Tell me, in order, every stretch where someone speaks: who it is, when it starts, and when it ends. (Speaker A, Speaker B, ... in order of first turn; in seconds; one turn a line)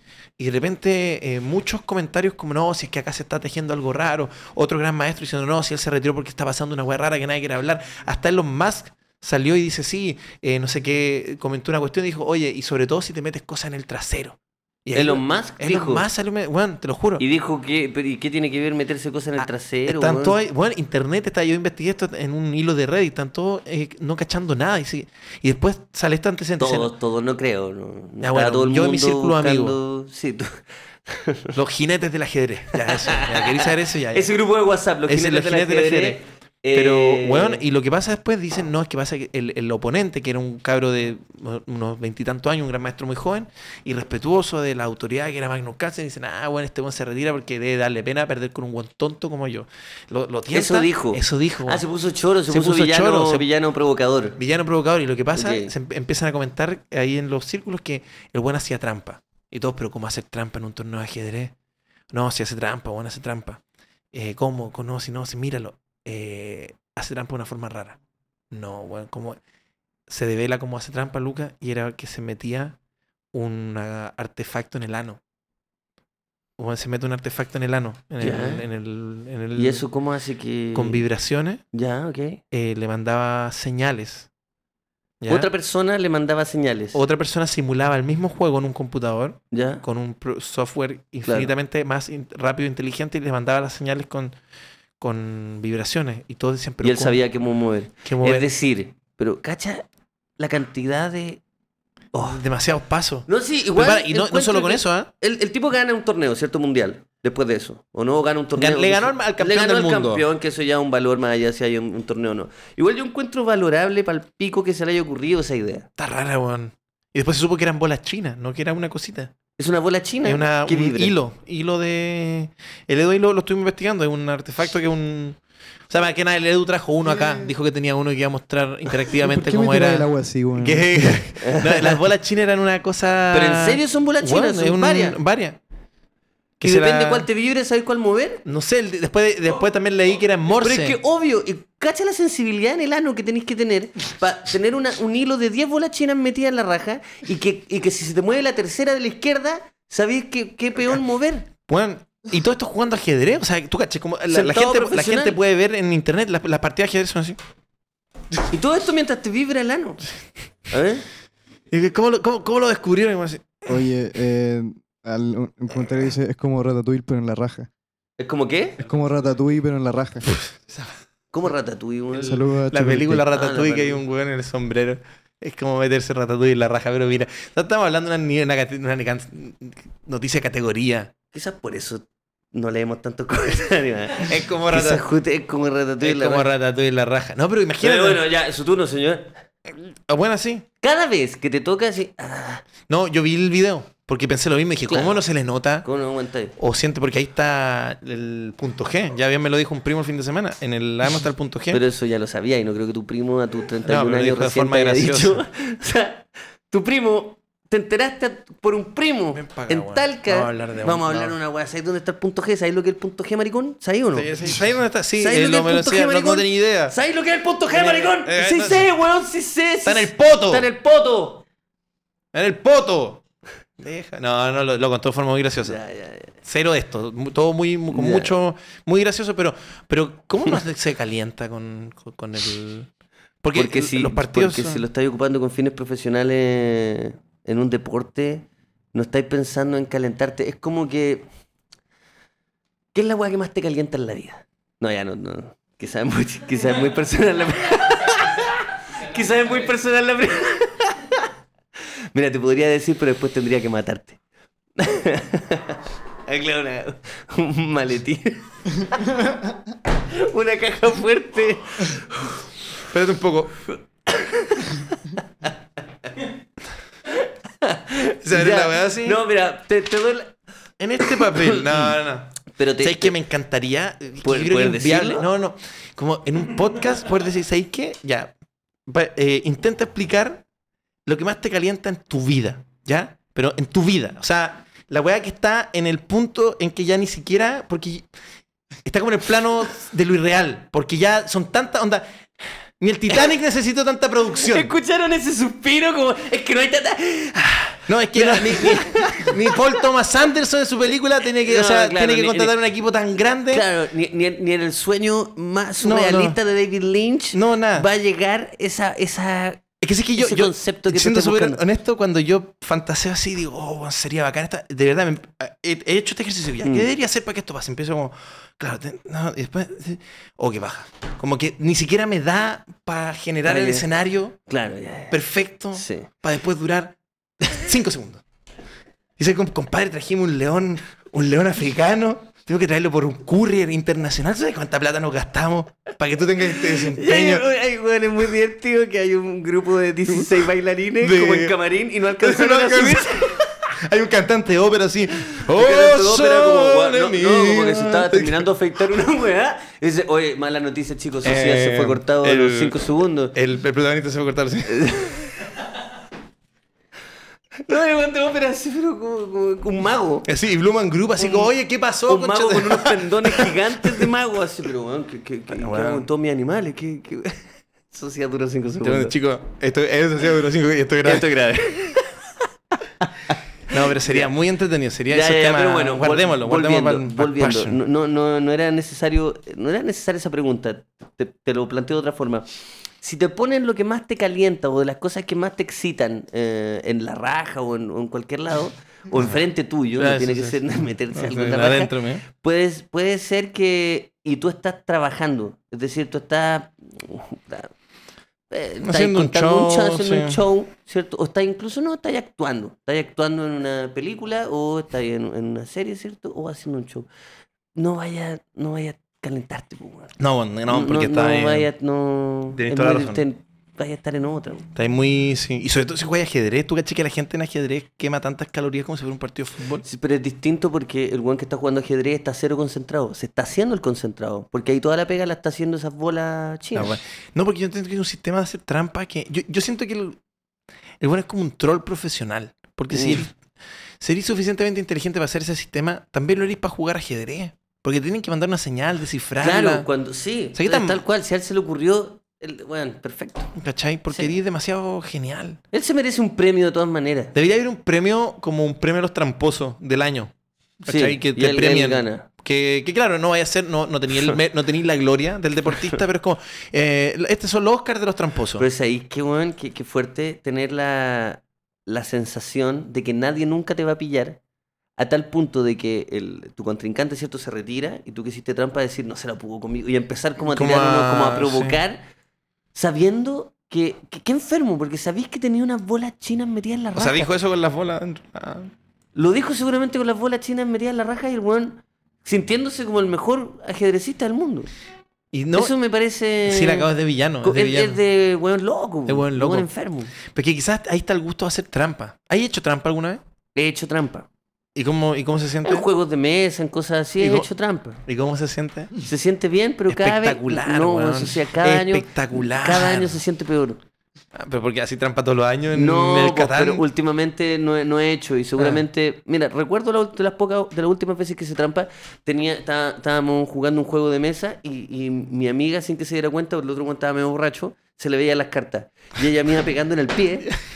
Speaker A: 0.4-17.2
Speaker B: 14.9-16.1
Speaker B: 17.2-20.4
Speaker A: 19.4-26.9
Speaker B: 26.6-31.6
Speaker A: 28.2-29.8
Speaker A: 31.5-34.3
Speaker B: 32.7-37.6
Speaker A: 35.1-36.2
Speaker A: 36.7-51.8
Speaker B: 50.5-54.4
Speaker A: 52.5-53.5
Speaker A: 54.4-61.5
Speaker B: 55.3-55.7
Speaker A: 62.1-63.6
Speaker A: 64.1-68.0
Speaker A: 68.5-69.4
Speaker A: 70.1-72.8
Speaker A: 73.3-75.2
Speaker A: 76.6-79.8
Speaker B: 78.2-78.6
Speaker B: 79.5-81.0
Speaker A: 80.7-81.6
Speaker B: 81.7-82.4
Speaker A: 82.5-84.3
Speaker A: 85.2-85.5
Speaker B: 85.3-87.0
Speaker A: 86.9-94.4
Speaker B: 89.5-89.8
Speaker B: 91.3-91.5
Speaker A: 95.0-97.2
Speaker B: 96.8-99.9
Speaker A: 98.0-98.5
Speaker B: 100.4-101.4
Speaker B: 102.1-102.4
Speaker A: 102.2-105.1
Speaker B: 103.3-115.9
Speaker A: 108.6-110.2
Speaker A: 116.0-119.3
Speaker B: 119.6-121.1
Speaker A: 120.2-125.4
Speaker A: 125.9-135.6
Speaker C: 129.1-131.2
Speaker B: 131.4-132.0
Speaker B: 133.3-135.2
Speaker A: 136.6-137.3
Speaker B: 136.6-138.4
Speaker A: 138.4-141.0
Speaker B: 140.6-151.5
Speaker A: 151.7-157.4
Speaker B: 154.3-155.4
Speaker B: 158.5-160.0
Speaker B: 160.7-161.1
Speaker A: 161.7-163.8
Speaker C: 163.7-167.7
Speaker B: 168.2-168.8
Speaker C: 168.8-170.4
Speaker A: 170.5-170.9
Speaker B: 171.3-172.4
Speaker C: 172.2-173.2
Speaker A: 172.7-181.1
Speaker B: 173.3-174.0
Speaker B: 181.3-186.5
Speaker A: 184.2-185.0
Speaker A: 186.0-188.2
Speaker B: 187.8-189.3
Speaker A: 190.1-190.7
Speaker B: 190.8-192.7
Speaker A: 192.9-195.9
Speaker B: 194.9-195.2
Speaker B: 195.8-196.6
Speaker A: 196.6-201.8
Speaker B: 201.7-214.5
Speaker A: 203.8-205.4
Speaker A: 209.3-211.3
Speaker A: 214.1-217.0
Speaker B: 215.2-221.4
Speaker A: 217.7-218.9
Speaker A: 219.8-220.7
Speaker A: 222.3-223.2
Speaker A: 223.8-225.8
Speaker B: 225.6-226.3
Speaker A: 226.4-232.9
Speaker B: 227.9-228.3
Speaker A: 233.4-234.8
Speaker B: 233.5-241.2
Speaker B: 242.9-254.2
Speaker B: 254.8-262.4
Speaker A: 262.9-263.6
Speaker B: 264.1-266.3
Speaker B: 267.1-270.4
Speaker A: 268.2-269.2
Speaker A: 270.8-278.3
Speaker B: 271.0-271.9
Speaker B: 272.5-273.2
Speaker B: 274.2-275.3
Speaker A: 278.9-280.4
Speaker A: 281.1-288.1
Speaker A: 288.9-292.1
Speaker A: 292.8-294.7
Speaker B: 294.4-299.9
Speaker A: 297.9-303.7
Speaker B: 301.3-302.6
Speaker B: 303.5-309.6
Speaker A: 305.8-306.4
Speaker A: 307.3-307.9
Speaker A: 309.8-324.4
Speaker B: 310.2-311.6
Speaker B: 323.5-323.9
Speaker B: 324.5-325.1
Speaker A: 325.1-328.2
Speaker B: 325.8-326.1
Speaker A: 329.2-337.4
Speaker B: 336.5-343.5
Speaker A: 341.0-341.6
Speaker A: 342.2-348.4
Speaker B: 345.4-353.4
Speaker A: 351.2-352.8
Speaker A: 353.3-355.2
Speaker B: 354.7-355.5
Speaker B: 357.6-360.3
Speaker A: 360.3-364.1
Speaker B: 361.2-361.5
Speaker B: 362.1-369.1
Speaker A: 365.5-366.1
Speaker A: 368.8-371.3
Speaker B: 371.0-372.1
Speaker B: 373.0-374.3
Speaker A: 373.7-377.8
Speaker B: 375.1-382.5
Speaker B: 383.0-397.7
Speaker A: 390.0-392.2
Speaker B: 398.5-407.1
Speaker A: 398.8-400.4
Speaker B: 407.8-410.1
Speaker A: 410.2-411.7
Speaker B: 410.7-414.7
Speaker A: 412.5-413.2
Speaker A: 414.8-419.9
Speaker B: 419.8-426.9
Speaker A: 426.8-430.2
Speaker A: 431.0-433.4
Speaker B: 432.9-433.2
Speaker A: 434.0-439.9
Speaker B: 439.4-443.5
Speaker A: 440.6-441.0
Speaker A: 443.6-445.6
Speaker B: 445.7-447.3
Speaker A: 447.3-458.7
Speaker B: 450.9-452.3
Speaker B: 458.6-464.4
Speaker B: 465.0-472.1
Speaker A: 470.5-471.8
Speaker B: 472.7-477.3
Speaker A: 476.9-478.7
Speaker B: 479.1-484.7
Speaker A: 485.3-485.7
Speaker B: 485.5-486.9
Speaker A: 486.4-488.0
Speaker B: 487.4-490.1
Speaker A: 489.1-489.7
Speaker A: 490.3-493.2
Speaker B: 493.6-494.3
Speaker A: 494.8-495.9
Speaker B: 495.6-498.0
Speaker A: 497.2-497.5
Speaker A: 498.1-498.9
Speaker B: 499.0-503.8
Speaker A: 499.9-503.2
Speaker A: 504.3-506.9
Speaker B: 505.7-520.5